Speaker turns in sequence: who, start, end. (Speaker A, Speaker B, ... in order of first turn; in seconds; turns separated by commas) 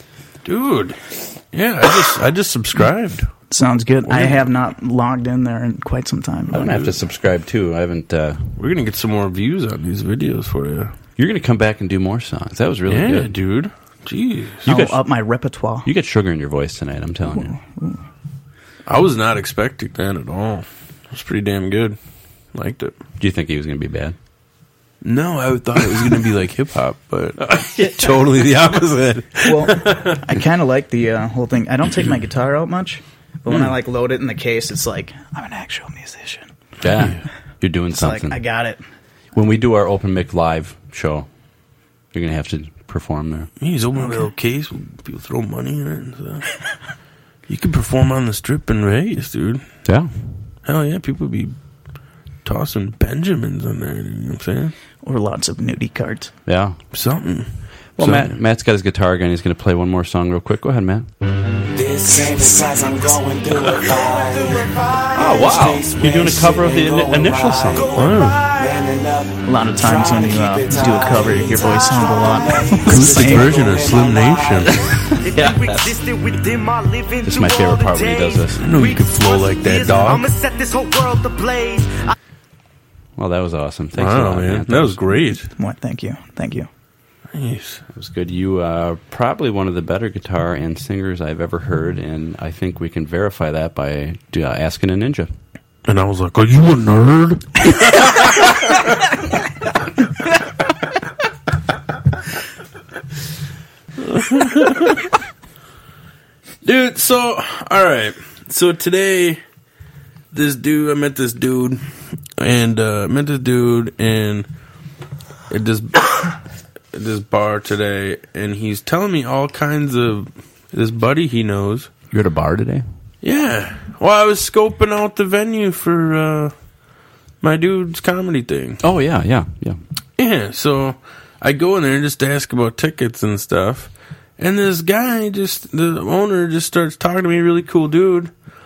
Speaker A: 0.4-3.3, Speaker B: 3.5-6.8, Speaker A: 4.1-4.5, Speaker C: 6.5-8.5, Speaker A: 8.6-10.9, Speaker C: 11.2-13.3, Speaker A: 12.9-14.7, Speaker B: 14.7-15.9, Speaker C: 14.7-15.0, Speaker C: 15.8-17.6, Speaker B: 17.3-18.0, Speaker A: 18.9-22.0, Speaker A: 22.5-23.0, Speaker C: 23.2-24.2, Speaker A: 25.0-30.2, Speaker B: 29.4-36.5, Speaker C: 36.8-38.4, Speaker B: 37.9-38.8, Speaker C: 39.3-41.3, Speaker C: 42.1-43.5, Speaker A: 43.6-46.6, Speaker A: 47.5-49.8, Speaker C: 49.9-50.1, Speaker A: 50.6-51.6, Speaker A: 52.4-54.7, Speaker B: 55.0-56.3, Speaker C: 56.5-56.8, Speaker A: 56.9-58.3, Speaker C: 58.0-61.1, Speaker D: 61.7-74.9, Speaker C: 65.1-68.0, Speaker A: 68.0-68.4, Speaker B: 69.5-73.5, Speaker A: 72.9-74.8, Speaker E: 75.2-82.1, Speaker C: 75.3-75.9, Speaker C: 77.2-78.7, Speaker A: 78.6-80.3, Speaker C: 83.2-85.0, Speaker A: 84.0-85.5, Speaker B: 85.5-86.7, Speaker A: 87.3-87.8, Speaker C: 87.9-95.3, Speaker A: 95.9-98.8, Speaker A: 104.0-105.1, Speaker A: 106.6-109.4, Speaker A: 110.3-111.8, Speaker A: 112.4-114.5, Speaker A: 115.5-116.3, Speaker A: 116.9-121.9, Speaker C: 122.1-122.9, Speaker A: 123.2-126.7, Speaker A: 127.4-128.8, Speaker C: 128.8-129.8, Speaker A: 130.2-138.3